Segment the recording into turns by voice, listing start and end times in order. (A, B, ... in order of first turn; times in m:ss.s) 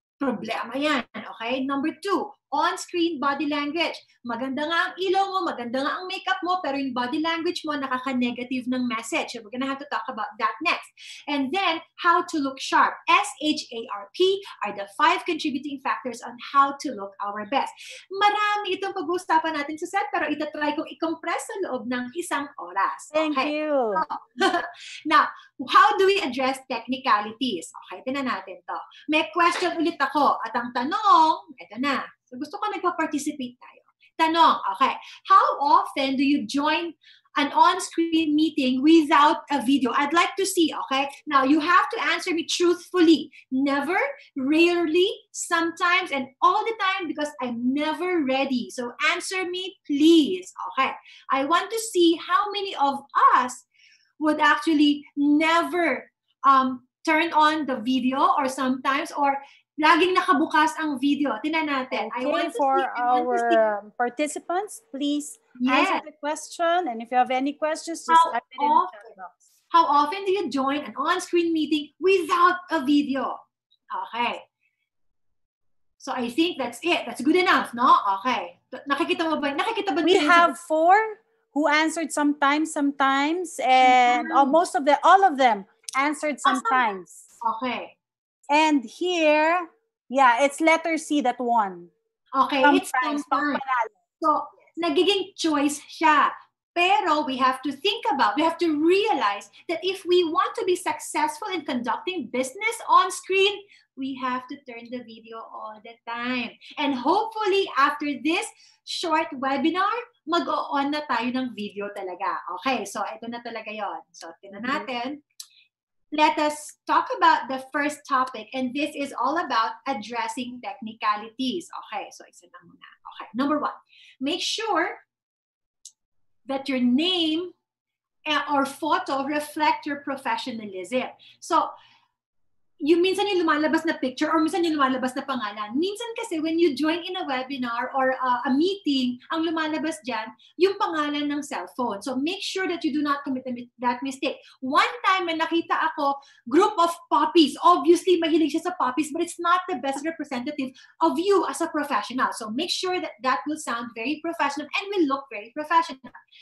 0:00.2-0:53.6 A
0:23.1-0:24.0 B
0:54.2-1:03.6 A
1:01.9-1:09.4 B
1:05.6-1:06.0 A
1:08.1-1:09.1 A
1:09.7-1:13.4 A
1:13.9-1:14.4 A
1:16.0-1:20.5 A
1:20.0-1:27.2 B
1:23.8-1:24.6 A
1:26.4-1:26.9 A
1:27.4-1:27.9 A
1:28.5-1:31.9 B
1:32.3-1:33.6 A
1:32.6-1:33.9 B
1:34.2-1:55.2 A
1:56.1-2:05.0 A
2:06.5-2:07.5 A
2:08.3-2:11.7 A
2:12.8-2:36.2 A